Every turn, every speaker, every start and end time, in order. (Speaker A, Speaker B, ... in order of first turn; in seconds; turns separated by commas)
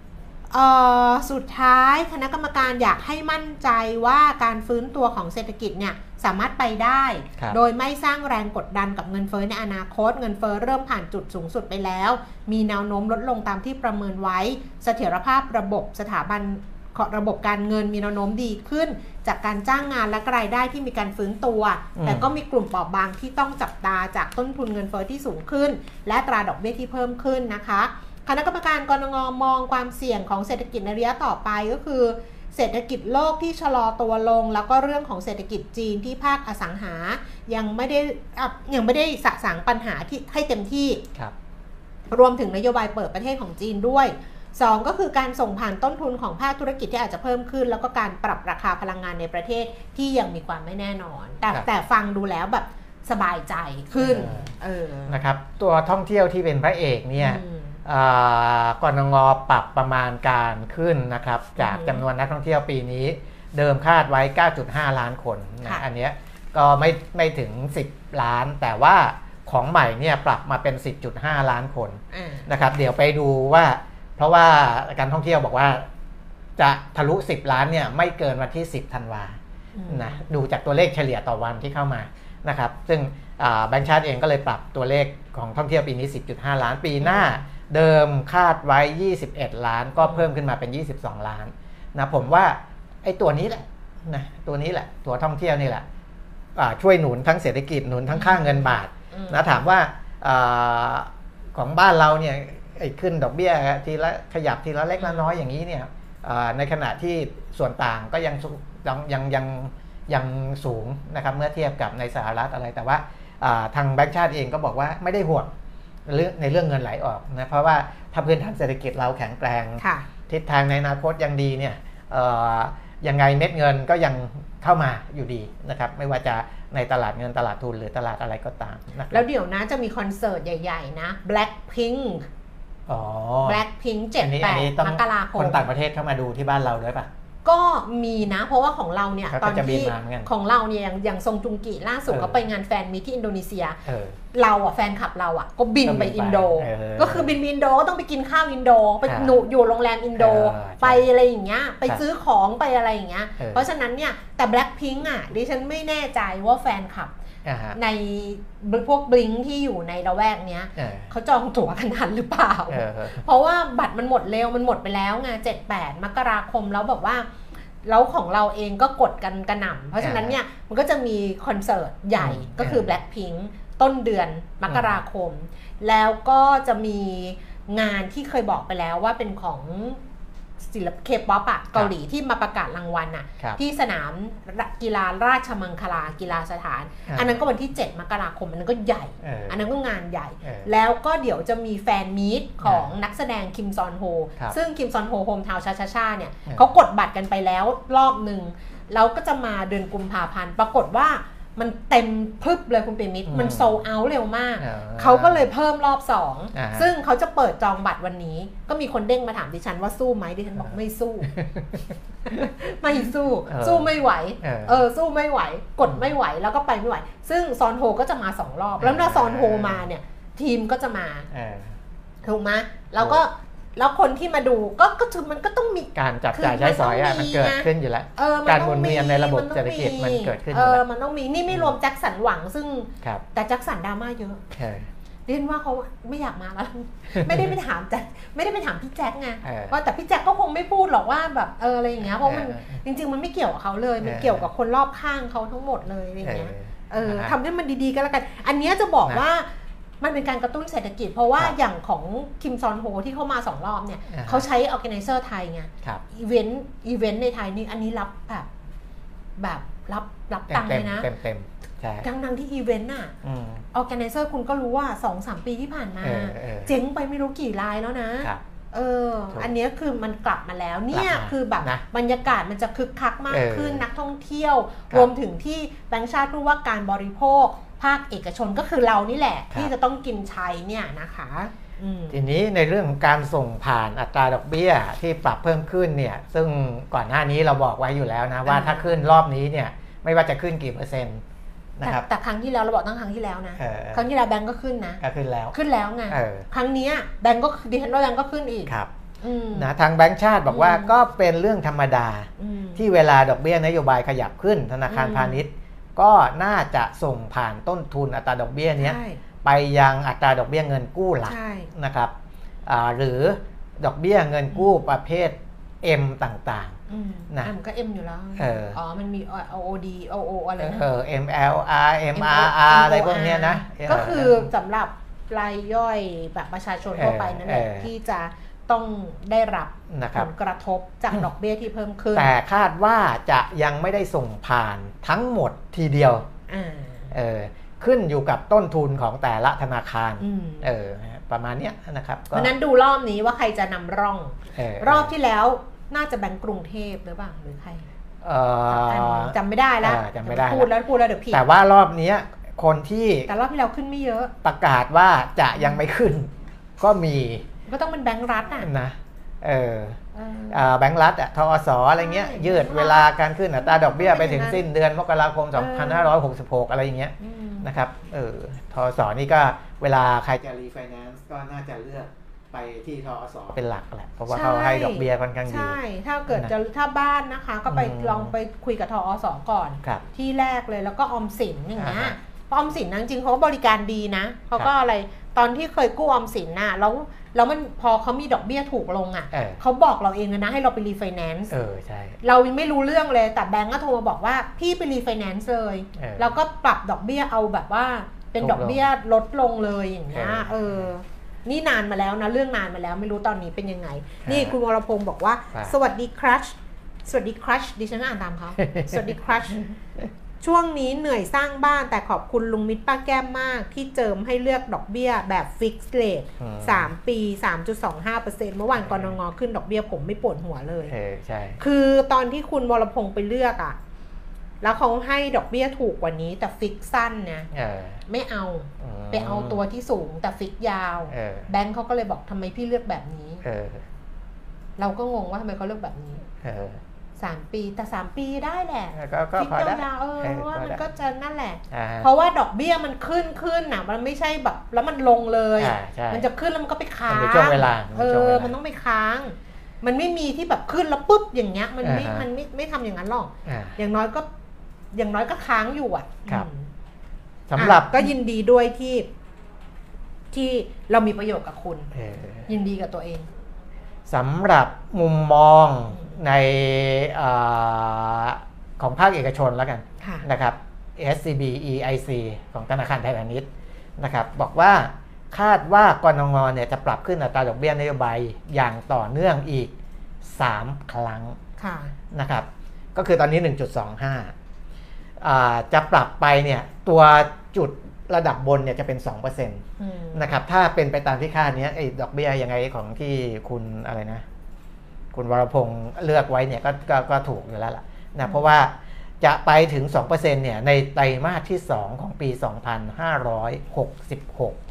Speaker A: 0.5-41.0, Speaker B: 22.0-22.3, Speaker A: 42.1-55.2, Speaker B: 54.0-54.5, Speaker B: 55.1-75.8, Speaker A: 57.2-57.8, Speaker A: 61.6-62.0, Speaker A: 72.1-72.5, Speaker B: 76.6-79.4, Speaker A: 79.7-80.2, Speaker B: 79.9-95.8, Speaker A: 87.0-87.4, Speaker B: 96.5-115.5, Speaker A: 98.1-99.5, Speaker A: 105.0-105.4, Speaker B: 116.0-129.2, Speaker A: 119.8-120.1, Speaker A: 129.1-132.3, Speaker B: 132.9-133.6, Speaker A: 133.4-135.6, Speaker B: 134.2-137.1, Speaker A: 137.4-143.8, Speaker B: 139.3-140.3, Speaker B: 142.1-142.4, Speaker B: 143.8-144.2, Speaker A: 144.3-157.1, Speaker B: 145.8-147.4, Speaker B: 149.1-149.4, Speaker B: 150.2-151.1, Speaker B: 153.4-153.7, Speaker B: 157.4-157.8, Speaker A: 157.7-167.3, Speaker B: 160.8-161.1, Speaker B: 162.7-163.2, Speaker A: 167.8-180.0, Speaker B: 170.0-170.3, Speaker B: 172.2-172.9, Speaker B: 174.7-175.0, Speaker A: 180.7-211.3, Speaker B: 187.1-187.4, Speaker B: 189.2-189.7, Speaker B: 190.4-190.7, Speaker B: 192.6-192.9, Speaker B: 203.3-203.8, Speaker B: 204.6-205.5, Speaker B: 206.5-206.9, Speaker B: 211.3-212.5, Speaker A: 212.2-221.3, Speaker B: 213.5-214.8, Speaker B: 215.8-216.1, Speaker B: 218.8-219.8, Speaker B: 221.3-221.7, Speaker A: 222.2-234.4, Speaker B: 225.9-230.8, Speaker B: 231.5-231.7, Speaker B: 234.5-234.9, Speaker A: 235.3-249.5, Speaker B: 237.2-237.4, Speaker B: 239.4-239.8, Speaker B: 242.2-242.8, Speaker B: 244.0-244.4, Speaker B: 246.2-247.4, Speaker A: 250.0-258.5, Speaker B: 254.1-254.4, Speaker A: 259.4-261.1, Speaker B: 260.5-262.1, Speaker A: 262.0-263.1, Speaker B: 263.2-263.6, Speaker A: 263.7-282.2, Speaker B: 266.0-266.7, Speaker B: 270.9-271.8, Speaker B: 273.3-273.8, Speaker B: 282.1-291.2, Speaker A: 288.4-289.0, Speaker B: 291.8-292.1, Speaker A: 291.8-295.0, Speaker B: 293.6-294.1, Speaker B: 295.0-295.5, Speaker A: 295.5-299.7, Speaker B: 296.1-296.5, Speaker B: 299.5-312.1, Speaker A: 300.5-300.9, Speaker A: 302.4-302.8, Speaker A: 304.9-305.4, Speaker A: 308.8-309.2, Speaker A: 311.2-311.7, Speaker B: 312.6-316.8, Speaker A: 316.9-320.8, Speaker B: 318.4-318.8, Speaker B: 320.6-324.5, Speaker A: 322.1-332.3, Speaker B: 326.9-327.9, Speaker B: 329.9-330.3, Speaker B: 332.1-336.3, Speaker A: 336.5-337.1, Speaker B: 337.1-342.5, Speaker A: 340.2-340.7, Speaker A: 342.3-347.9, Speaker B: 344.5-345.1, Speaker B: 348.2-350.7, Speaker A: 348.7-351.4, Speaker B: 351.3-353.3, Speaker A: 353.3-354.3, Speaker B: 354.4-357.4, Speaker A: 357.7-358.7, Speaker B: 358.6-360.0, Speaker A: 360.1-360.6, Speaker B: 360.5-375.8, Speaker A: 362.0-364.6, Speaker A: 365.5-366.1, Speaker A: 367.2-367.7, Speaker A: 374.3-391.5, Speaker B: 377.7-378.3, Speaker B: 381.8-382.2, Speaker B: 389.3-389.6, Speaker B: 391.5-392.2, Speaker A: 392.2-409.6, Speaker B: 395.9-396.4, Speaker B: 398.4-398.8, Speaker B: 400.1-400.9, Speaker B: 404.2-404.5, Speaker B: 408.6-409.0, Speaker A: 410.4-420.9, Speaker B: 416.4-416.9, Speaker B: 418.8-419.1, Speaker B: 420.9-421.6, Speaker A: 421.6-423.8, Speaker A: 424.6-427.5, Speaker B: 427.5-428.0, Speaker A: 428.1-433.4, Speaker B: 428.8-429.6, Speaker B: 431.1-431.5, Speaker B: 433.4-433.8, Speaker A: 434.8-436.3, Speaker B: 436.4-436.8, Speaker A: 437.2-454.3, Speaker B: 438.9-440.8, Speaker B: 441.7-442.1, Speaker B: 445.6-446.2, Speaker B: 447.1-448.6, Speaker B: 451.8-452.2, Speaker B: 453.4-453.8, Speaker A: 454.9-456.7, Speaker B: 457.5-458.1, Speaker A: 457.6-459.1, Speaker A: 460.3-461.9, Speaker B: 461.9-462.5, Speaker A: 462.5-463.3, Speaker B: 464.1-473.5, Speaker A: 470.0-470.3, Speaker B: 474.0-481.4, Speaker A: 481.6-481.9, Speaker B: 482.1-484.3, Speaker B: 485.2-494.2, Speaker A: 489.8-490.3, Speaker B: 495.1-504.6